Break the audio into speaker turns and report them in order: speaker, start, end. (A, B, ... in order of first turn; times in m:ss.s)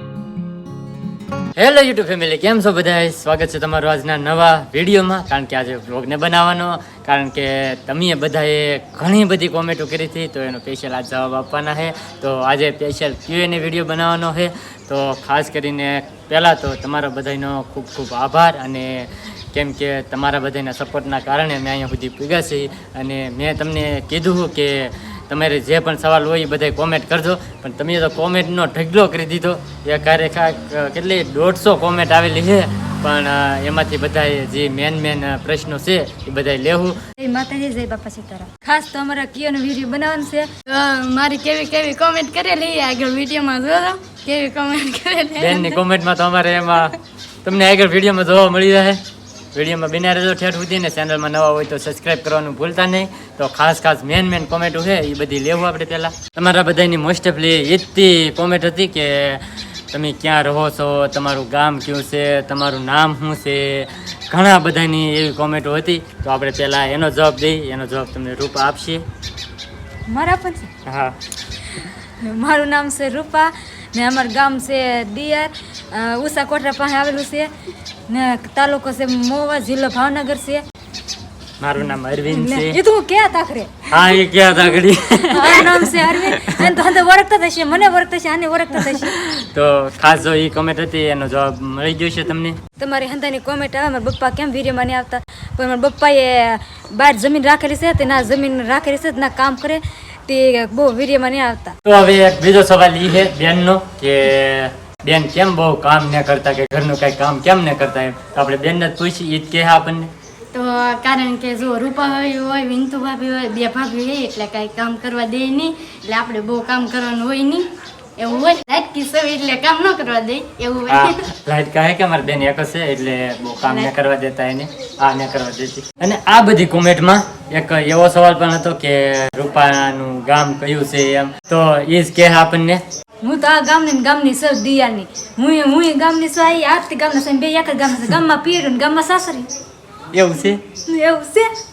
0:01.6-0:37.0 A
0:37.2-0:40.5 B
0:40.7-0:45.7 C
0:45.4-0:49.0 A
0:49.5-1:09.0 A
1:10.1-1:10.7 B
1:10.8-1:11.1 A
1:11.8-1:17.5 B
1:18.1-1:20.6 B
1:21.6-1:22.8 A
1:22.3-1:23.9 B
1:23.9-1:26.6 A
1:25.3-1:29.1 B
1:29.1-1:32.6 A
1:32.8-1:41.7 B
1:41.8-1:50.1 A
1:50.5-1:57.7 C
1:58.2-2:01.1 C
2:00.9-2:12.8 A
2:13.2-2:19.5 B
2:20.1-2:20.6 A
2:20.8-2:21.5 B